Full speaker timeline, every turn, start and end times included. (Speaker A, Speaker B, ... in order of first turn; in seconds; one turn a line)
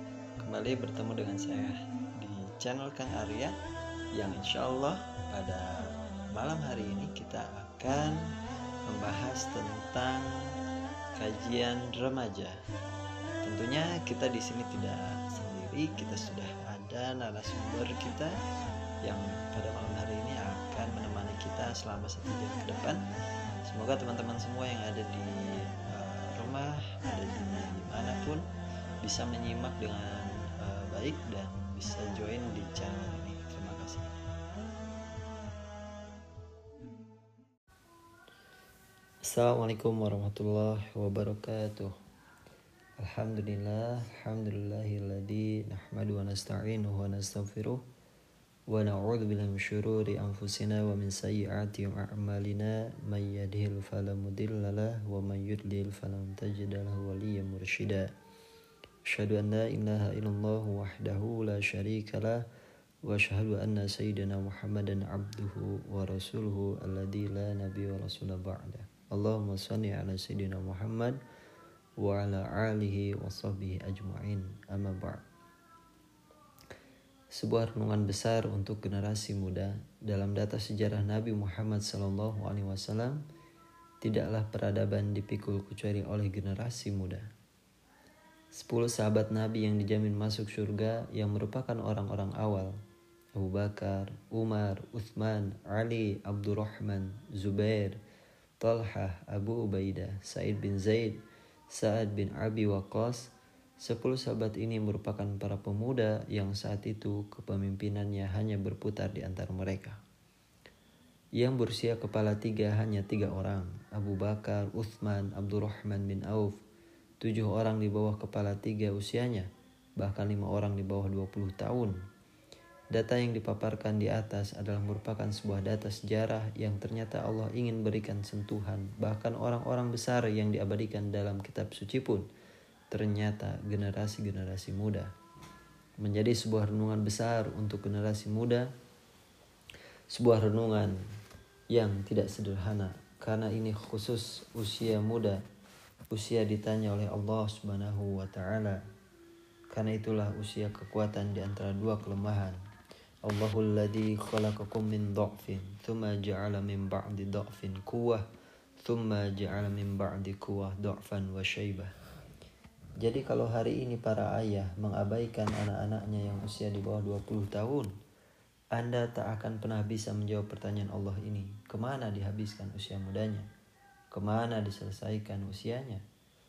Speaker A: 0.4-3.5
Speaker A: 4.1-8.2
Speaker A: 8.9-10.3
Speaker A: 11.2-12.6
Speaker A: 13.4-18.4
Speaker A: 19.0-23.0
Speaker A: 23.7-28.4
Speaker A: 29.0-34.1
Speaker A: 39.3-41.9
Speaker A: 43.0-47.8
Speaker A: 48.7-58.1
Speaker A: 59.1-62.4
Speaker A: 63.0-71.2
Speaker A: 72.0-75.2
Speaker A: 77.3-83.2
Speaker A: 84.0-87.3
Speaker A: 88.5-92.7
Speaker A: 93.3-98.0
Speaker A: 98.6-101.2
Speaker A: 101.7-103.3
Speaker A: 103.8-110.0
Speaker A: 111.4-116.5
Speaker A: 117.2-122.0
Speaker A: 122.9-132.2
Speaker A: 132.9-135.1
Speaker A: 136.0-138.7
Speaker A: 140.1-141.0
Speaker A: 141.7-145.4
Speaker A: 146.1-148.8
Speaker A: 149.7-152.6
Speaker A: 153.2-158.2
Speaker A: 158.8-161.9
Speaker A: 163.0-167.9
Speaker A: 168.7-173.5
Speaker A: 174.1-176.0